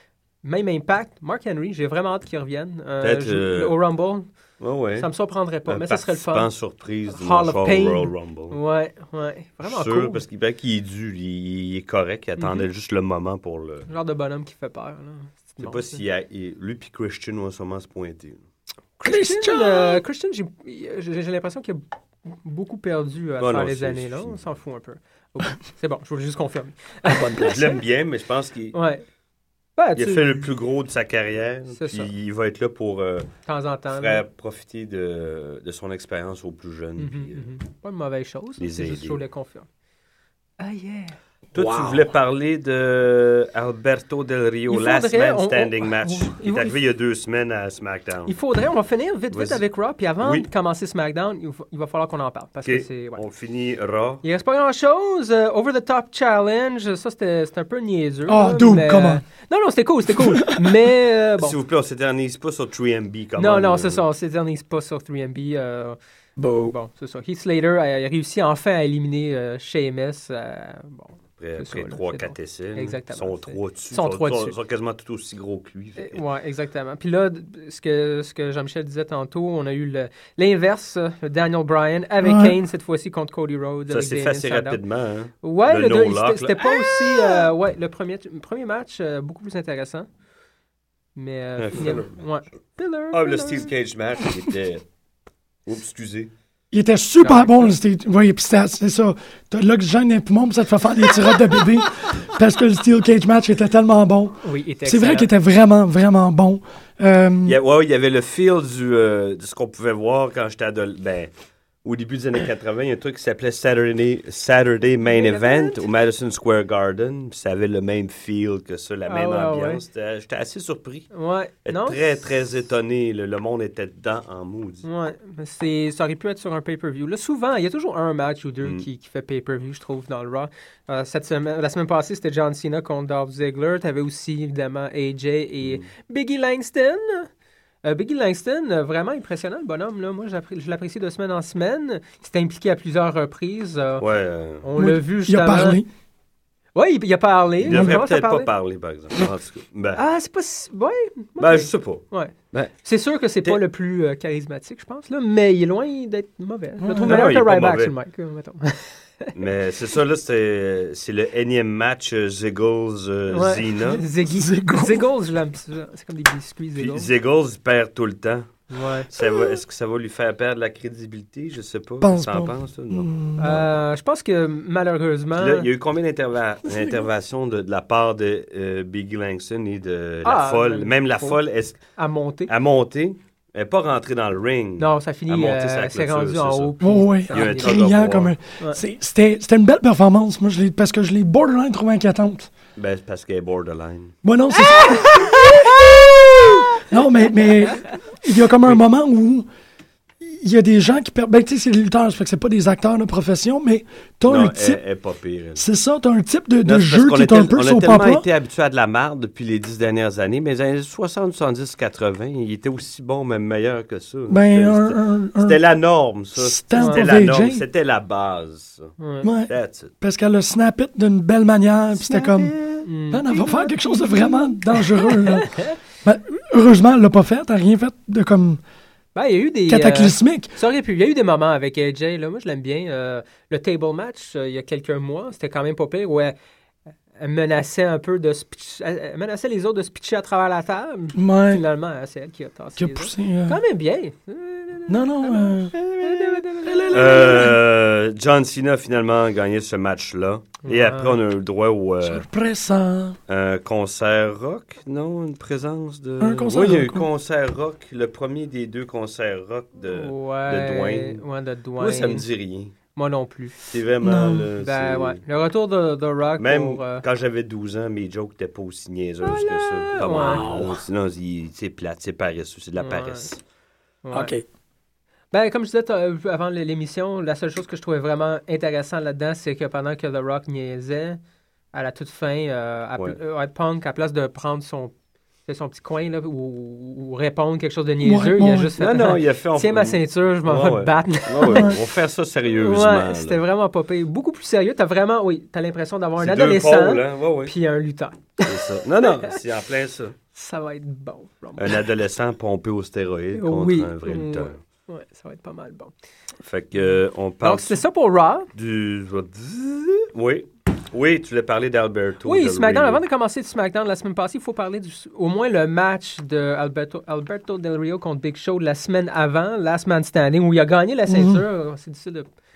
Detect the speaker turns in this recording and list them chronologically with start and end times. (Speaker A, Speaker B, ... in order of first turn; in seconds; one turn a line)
Speaker A: 0.4-4.3
Speaker B: 3.0-3.8
Speaker B: 4.6-5.1
Speaker A: 5.0-6.5
Speaker B: 5.7-8.6
Speaker A: 7.1-10.2
Speaker B: 9.6-13.9
Speaker A: 12.4-12.7
Speaker A: 13.9-16.0
Speaker B: 15.6-18.4
Speaker A: 19.0-27.6
Speaker C: 19.0-20.0
Speaker B: 23.4-24.5
Speaker C: 27.0-27.7
Speaker B: 27.4-28.7
Speaker A: 28.7-29.0
Speaker A: 29.8-30.5
Speaker B: 29.9-33.3
Speaker A: 31.7-32.1
Speaker A: 33.5-34.2
Speaker B: 33.9-37.5
Speaker A: 37.0-39.7
Speaker B: 38.6-39.2
Speaker A: 40.6-41.2
Speaker C: 41.5-42.1
Speaker B: 41.5-48.3
Speaker A: 44.7-46.8
Speaker A: 48.2-53.2
Speaker B: 49.3-49.6
Speaker B: 50.2-50.5
Speaker B: 52.6-54.2
Speaker A: 54.2-61.6
Speaker C: 58.3-59.2
Speaker C: 60.2-60.7
Speaker B: 61.4-64.0
Speaker A: 63.4-66.0
Speaker C: 66.4-66.7
Speaker A: 66.6-74.5
Speaker B: 71.4-76.2
Speaker A: 76.0-84.8
Speaker C: 82.2-82.5
Speaker B: 83.9-87.4
Speaker A: 85.4-90.1
Speaker A: 91.2-93.7
Speaker B: 91.6-92.2
Speaker B: 93.1-94.8
Speaker B: 95.7-96.3
Speaker C: 96.7-107.6
Speaker A: 97.2-97.7
Speaker A: 104.4-105.3
Speaker B: 107.5-111.3
Speaker B: 111.8-121.1
Speaker A: 115.0-115.8
Speaker A: 119.1-119.8
Speaker A: 121.1-122.0
Speaker B: 121.6-124.8
Speaker A: 124.8-137.3
Speaker B: 135.6-135.9
Speaker A: 137.8-144.0
Speaker B: 144.0-144.7
Speaker A: 144.6-145.8
Speaker C: 144.8-145.9
Speaker A: 146.7-148.5
Speaker B: 147.6-150.0
Speaker C: 147.7-147.9
Speaker A: 149.9-152.3
Speaker B: 151.4-152.7
Speaker A: 152.8-159.3
Speaker C: 156.8-157.3
Speaker B: 157.0-157.9
Speaker B: 159.3-164.0
Speaker A: 163.3-167.1
Speaker C: 164.2-165.1
Speaker B: 166.8-173.6
Speaker A: 168.7-169.1
Speaker C: 169.2-169.6
Speaker C: 172.0-173.6
Speaker A: 173.4-175.7
Speaker B: 175.4-181.8
Speaker C: 176.7-177.0
Speaker A: 180.2-181.4
Speaker A: 181.9-182.5
Speaker B: 182.5-186.7
Speaker A: 184.8-187.8
Speaker C: 186.8-192.5
Speaker B: 187.3-188.3
Speaker B: 192.8-194.1
Speaker C: 194.2-196.0
Speaker A: 194.6-195.7
Speaker C: 196.7-199.5
Speaker C: 200.2-204.8
Speaker B: 204.2-205.6
Speaker C: 205.6-208.2
Speaker B: 206.6-218.9
Speaker C: 214.3-215.6
Speaker C: 216.3-217.6
Speaker A: 216.8-217.0
Speaker A: 219.0-219.3
Speaker C: 219.2-222.6
Speaker B: 219.5-219.9
Speaker B: 222.4-222.8
Speaker A: 222.8-225.8
Speaker C: 223.1-228.6
Speaker A: 229.1-236.3
Speaker C: 229.7-230.5
Speaker A: 237.2-247.5
Speaker C: 241.1-241.6
Speaker C: 242.8-243.6
Speaker C: 244.9-245.8
Speaker C: 246.5-247.6
Speaker B: 246.9-252.2
Speaker A: 250.6-251.2
Speaker C: 252.0-253.2
Speaker B: 253.3-261.2
Speaker C: 256.2-257.1
Speaker A: 259.8-262.2
Speaker B: 261.8-262.7
Speaker A: 262.9-263.6
Speaker B: 263.7-265.2
Speaker C: 264.0-264.5
Speaker A: 264.6-267.0
Speaker B: 266.4-273.4
Speaker A: 269.3-270.5
Speaker C: 270.0-270.8
Speaker A: 272.8-273.3
Speaker A: 274.0-274.3
Speaker C: 274.1-274.4
Speaker A: 275.3-281.2
Speaker A: 281.7-284.9
Speaker A: 285.4-291.8
Speaker C: 288.0-288.7
Speaker B: 288.8-293.4
Speaker C: 291.5-291.8
Speaker A: 292.5-299.4
Speaker B: 296.2-297.5
Speaker B: 298.4-300.1
Speaker A: 300.3-301.8
Speaker B: 301.6-304.5
Speaker A: 303.3-305.9
Speaker B: 306.4-307.8
Speaker A: 307.4-308.5
Speaker B: 308.5-313.0
Speaker A: 312.2-322.3
Speaker C: 321.1-321.4